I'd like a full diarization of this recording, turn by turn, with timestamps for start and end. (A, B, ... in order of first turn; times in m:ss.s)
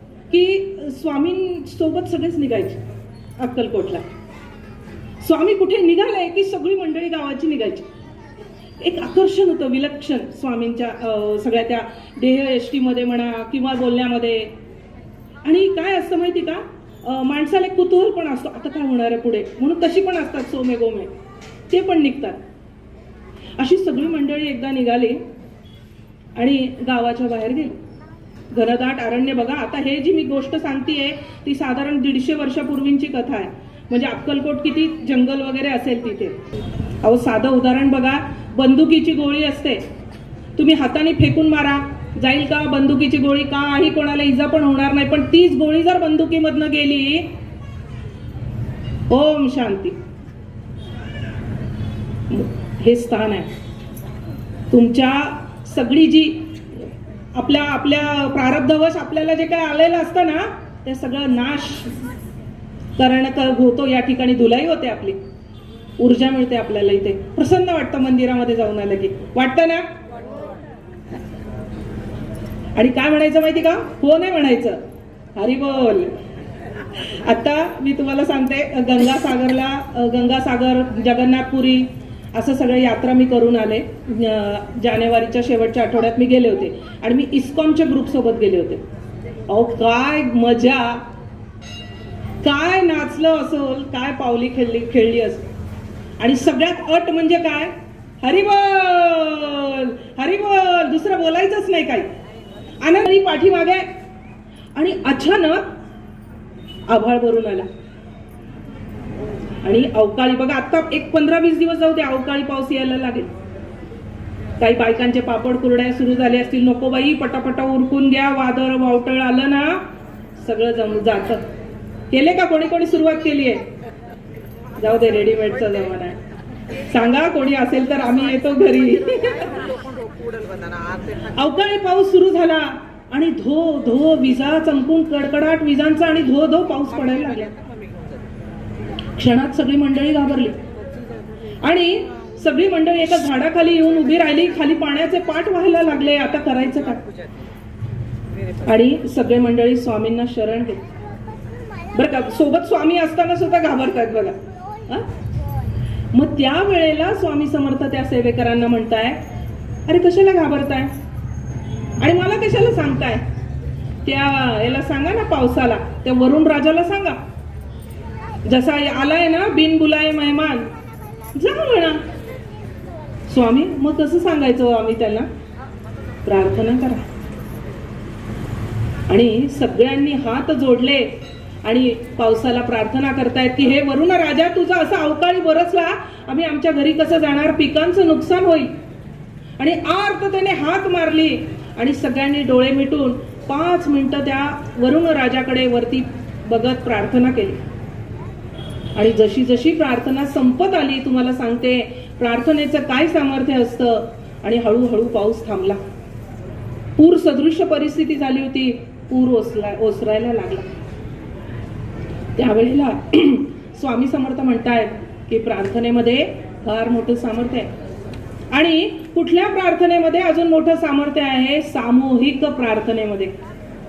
0:00.3-0:02.8 A
0:03.4-0:04.0 A
0:05.2-0:07.9 A
0:08.8-0:14.5 A
0:15.4-0:21.1 A
0:21.7-0:22.4 A
0:23.6-0:25.2 A
0:26.4-0:27.8 A
0:28.5-0:36.4 A
0:37.0-0:39.8 A
0:40.6-0:47.3 A
0:49.1-0:50.0 A
0:52.3-0:53.5 A
0:54.7-1:02.0 A
1:03.0-1:05.2 A
1:06.0-1:09.9 A
1:12.8-1:14.8 A
1:15.4-1:16.1 A
1:17.0-1:28.8 A
1:29.5-1:31.0 A
1:32.4-1:35.5 A
1:36.2-1:42.1 A
1:42.8-1:43.9 A
1:44.8-1:45.7 A
1:46.9-1:47.7 A
1:49.6-1:53.3 A
1:54.6-1:59.8 A
2:00.4-2:01.4 A
2:02.1-2:03.7 A
2:04.8-2:06.2 A
2:06.8-2:09.7 A
2:11.3-2:17.6 A
2:19.2-2:20.6 A
2:21.6-2:27.0 A
2:28.6-2:30.8 A
2:31.9-2:35.1 A
2:36.1-2:39.2 A
2:39.9-2:40.9 A
2:42.0-2:43.2 A
2:44.0-2:47.2 A
2:48.4-2:50.7 A
2:51.3-2:52.0 A
2:53.3-2:55.3 A
2:56.2-2:57.1 A
2:59.1-3:08.7 A
3:09.6-3:17.6 A
3:19.0-3:25.8 A
3:27.0-3:30.7 A
3:32.4-3:37.7 A
3:38.5-3:43.4 A